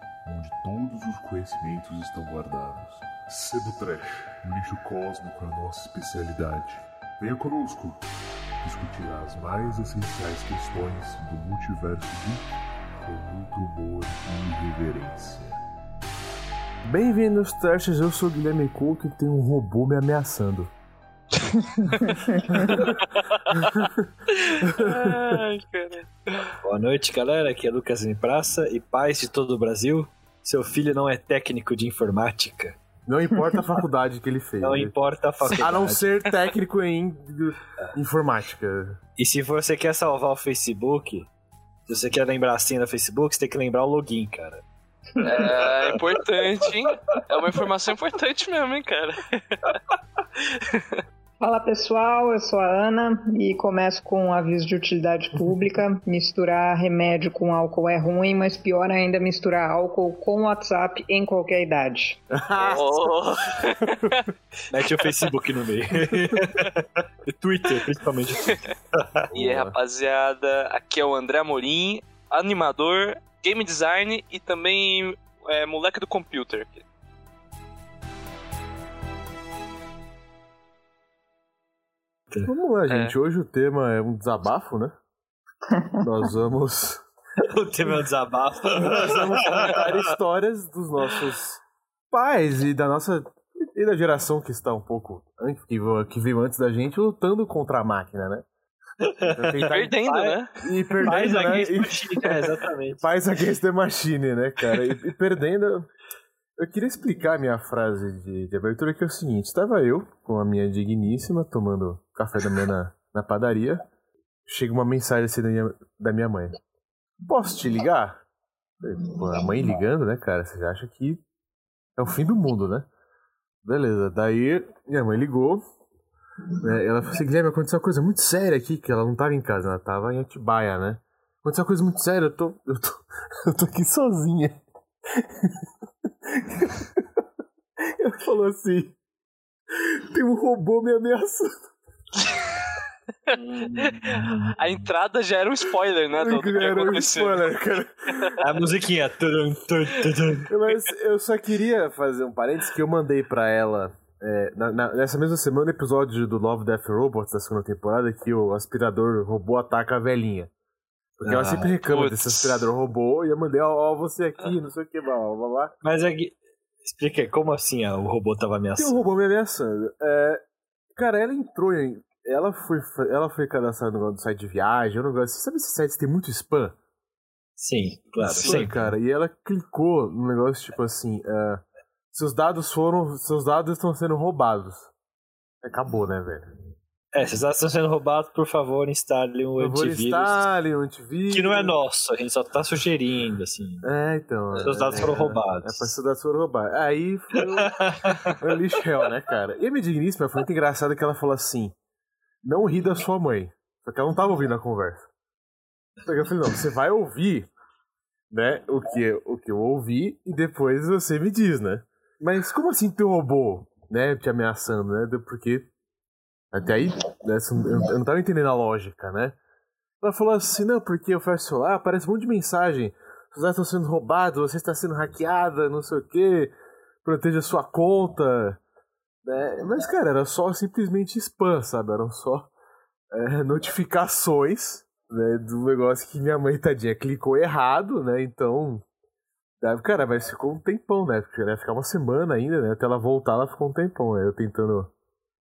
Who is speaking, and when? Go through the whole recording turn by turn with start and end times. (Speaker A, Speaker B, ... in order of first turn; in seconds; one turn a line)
Speaker A: 0.2-8.1
Speaker A: 8.6-15.6
Speaker B: 16.8-20.7
Speaker C: 21.8-22.4
Speaker B: 22.5-23.0
Speaker D: 22.6-23.7
Speaker B: 23.5-25.4
Speaker D: 24.3-26.5
Speaker E: 26.6-32.8
Speaker B: 33.0-39.0
Speaker E: 34.6-36.0
Speaker E: 39.2-41.3
Speaker E: 41.9-44.6
Speaker E: 45.2-46.4
Speaker D: 45.2-49.8
Speaker D: 50.4-51.0
Speaker C: 51.4-62.2
Speaker B: 62.3-63.7
Speaker D: 62.6-64.2
Speaker E: 64.7-69.2
Speaker B: 69.3-69.8
Speaker D: 69.3-76.8
Speaker B: 82.4-84.9
Speaker D: 82.9-83.2
Speaker C: 85.7-86.0
Speaker B: 86.0-87.0
Speaker E: 87.4-90.1
Speaker B: 88.8-98.5
Speaker E: 99.0-100.4
Speaker B: 99.2-100.0
Speaker D: 99.7-101.6
Speaker B: 100.6-102.5
Speaker E: 101.0-103.0
Speaker B: 103.0-105.9
Speaker B: 106.6-113.8
Speaker B: 114.5-116.6
Speaker B: 117.2-118.2
Speaker B: 118.8-121.2
Speaker B: 122.0-122.9
Speaker B: 123.6-125.6
Speaker B: 126.6-135.5
Speaker B: 136.3-137.1
Speaker B: 137.9-139.0
Speaker B: 139.7-141.7
Speaker D: 143.3-147.5
Speaker E: 143.3-144.5
Speaker B: 146.2-148.4
Speaker E: 148.4-150.5
Speaker B: 150.5-160.5
Speaker B: 161.2-165.7
Speaker E: 161.2-161.7
Speaker D: 161.8-162.7
Speaker E: 165.8-169.1
Speaker B: 168.8-170.4
Speaker B: 170.9-176.8
Speaker E: 177.6-178.7
Speaker B: 178.2-184.9
Speaker B: 185.6-186.4
Speaker E: 187.1-190.4
Speaker B: 189.6-191.8
Speaker E: 191.3-193.8
Speaker B: 193.8-201.8
Speaker E: 194.6-195.9
Speaker E: 197.5-198.4
Speaker B: 202.4-205.1
Speaker B: 206.0-207.5
Speaker B: 208.3-215.7
Speaker B: 216.5-219.4
Speaker B: 220.0-226.5
Speaker B: 227.0-228.6
Speaker B: 229.2-232.5
Speaker B: 233.1-238.8
Speaker B: 239.6-244.9